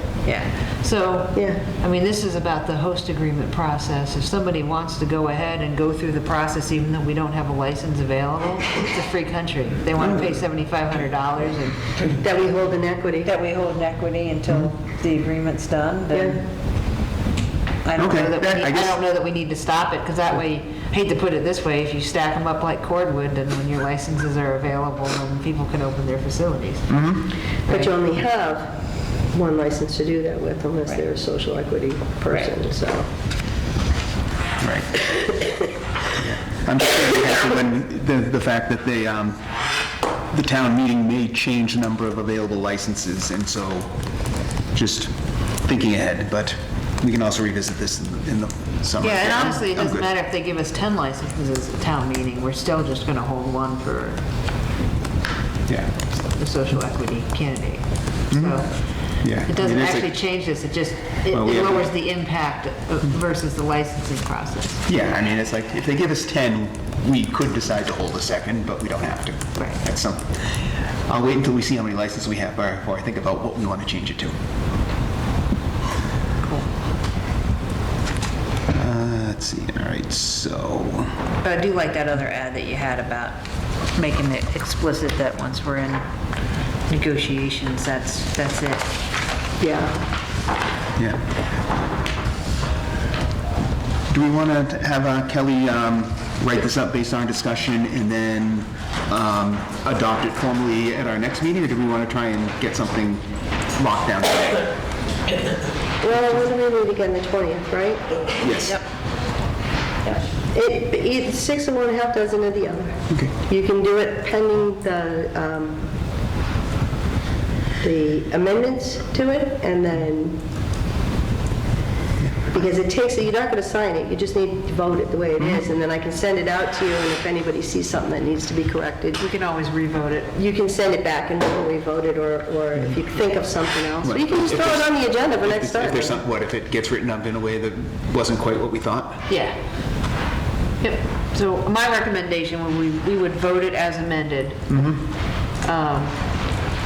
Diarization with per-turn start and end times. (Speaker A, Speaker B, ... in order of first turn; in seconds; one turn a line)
Speaker A: 0.2-11.9
Speaker B: 1.3-1.6
Speaker C: 10.0-10.3
Speaker B: 12.0-13.3
Speaker A: 13.2-16.4
Speaker B: 16.1-16.4
Speaker A: 17.8-26.9
Speaker C: 17.9-19.0
Speaker C: 26.9-27.3
Speaker A: 27.7-27.9
Speaker B: 27.7-28.8
Speaker B: 29.3-33.1
Speaker C: 34.6-35.0
Speaker B: 35.1-35.6
Speaker C: 36.2-39.4
Speaker C: 40.3-43.9
Speaker C: 44.7-50.1
Speaker A: 49.0-54.2
Speaker A: 56.3-58.7
Speaker C: 58.3-58.6
Speaker C: 59.2-60.1
Speaker A: 59.4-64.8
Speaker C: 61.3-61.9
Speaker C: 64.8-70.4
Speaker C: 71.1-74.3
Speaker A: 76.4-76.7
Speaker C: 78.7-81.2
Speaker A: 81.4-83.4
Speaker A: 83.9-86.0
Speaker A: 86.9-88.9
Speaker B: 89.6-90.0
Speaker C: 91.0-91.2
Speaker C: 94.1-103.2
Speaker C: 103.7-104.7
Speaker B: 106.0-108.2
Speaker C: 108.4-108.8
Speaker B: 110.5-115.8
Speaker B: 117.8-120.4
Speaker B: 122.5-129.2
Speaker A: 129.2-130.3
Speaker B: 130.3-136.2
Speaker C: 134.0-139.2
Speaker A: 139.3-139.5
Speaker A: 140.8-144.7
Speaker C: 144.7-145.0
Speaker A: 145.6-146.2